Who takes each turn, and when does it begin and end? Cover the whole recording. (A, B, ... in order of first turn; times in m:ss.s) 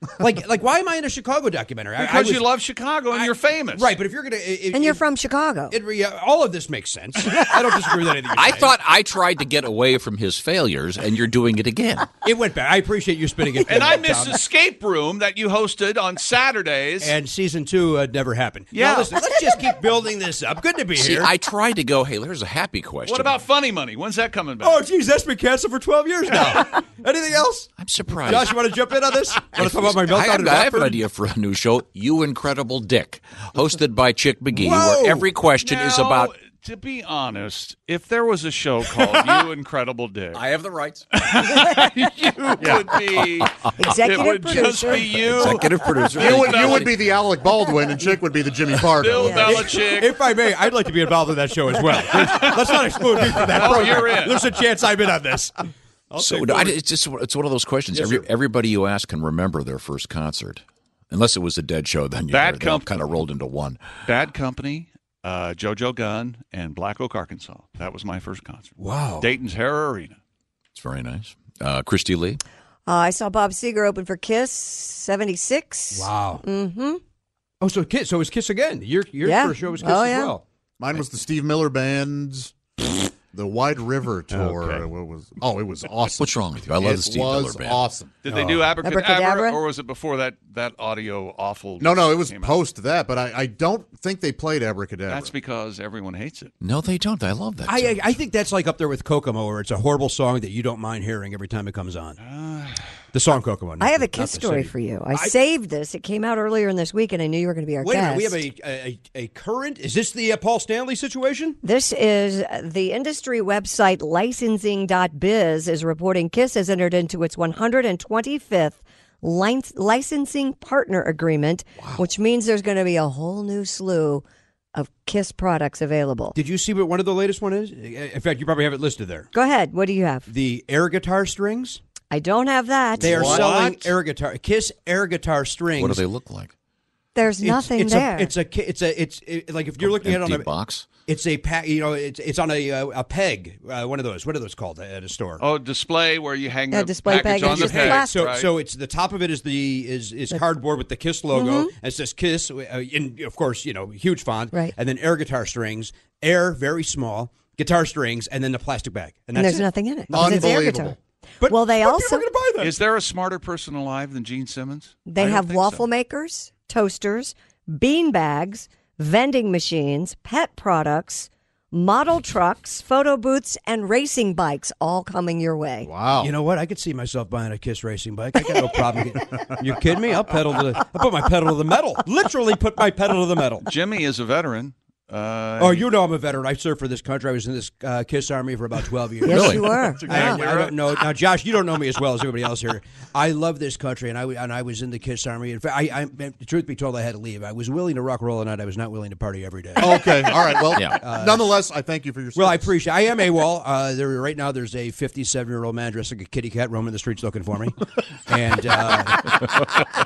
0:00.2-0:02.5 A
0:02.0-0:04.0 B
0:03.1-0:05.0 A
0:04.7-0:05.8 C
0:05.7-0:08.7 A
0:08.3-0:12.1 D
0:12.2-0:14.4 A
0:13.6-0:17.2 B
0:17.0-0:21.3 A
0:18.7-0:19.2 B
0:21.0-0:23.4 D
0:23.1-0:24.8 B
0:24.6-0:27.7 A
0:27.8-0:28.6 D
0:28.2-0:31.0 A
0:29.4-0:36.3 D
0:34.5-0:35.3 A
0:35.6-0:40.4 B
0:40.3-0:41.1 D
0:41.1-0:46.9 B
0:41.5-0:41.9 C
0:42.6-0:43.5 E
0:43.8-0:45.9 C
0:45.0-0:47.0 D
0:46.2-0:49.8 E
0:48.8-0:50.2 B
0:49.1-0:49.6 C
0:49.4-0:56.7 A
0:51.9-0:54.4 B
0:56.2-1:03.8 D
0:57.9-0:58.3 A
1:02.3-1:02.9 B
1:04.0-1:10.2 B
1:08.8-1:09.3 A
1:10.7-1:12.4 D
1:12.9-1:17.0 C
1:15.9-1:16.4 A
1:17.6-1:20.4 A
1:19.2-1:20.4 C
1:20.8-1:28.1 E
1:24.3-1:24.9 A
1:26.2-1:27.8 D
1:28.2-1:32.6 B
1:28.3-1:28.8 A
1:28.8-1:29.6 C
1:31.8-1:35.3 E
1:35.1-1:36.5 B
1:36.6-1:38.2 D
1:37.7-1:42.2 A
1:42.2-1:42.9 B
1:43.1-1:45.4 A
1:43.8-1:48.4 C
1:47.8-1:51.6 A
1:51.6-2:04.2 C
2:04.8-2:06.4 C
2:06.4-2:09.3 A
2:09.3-2:10.3 C
2:10.3-2:11.8 A
2:12.1-2:13.4 C
2:13.0-2:13.5 E
2:13.0-2:16.0 A
2:13.2-2:13.9 B
2:15.8-2:16.5 D
2:17.2-2:18.3 C
2:17.4-2:20.5 A
2:19.8-2:20.9 D
2:21.1-2:25.4 A
2:25.4-2:28.5 B
2:26.7-2:28.3 C
2:27.2-2:40.5 A
2:31.3-2:31.7 C
2:39.4-2:41.0 C
2:40.1-2:41.0 E
2:41.4-2:42.8 A
2:41.5-2:42.3 C
2:42.6-2:45.9 B
2:45.1-2:55.9 C
2:55.8-2:56.3 E
2:56.2-3:03.7 A
2:59.5-2:59.8 E
3:03.7-3:05.9 B
3:05.6-3:21.5 A
3:09.2-3:10.4 C
3:09.3-3:09.9 D
3:10.0-3:11.0 B
3:19.8-3:22.7 E
3:22.4-3:29.6 A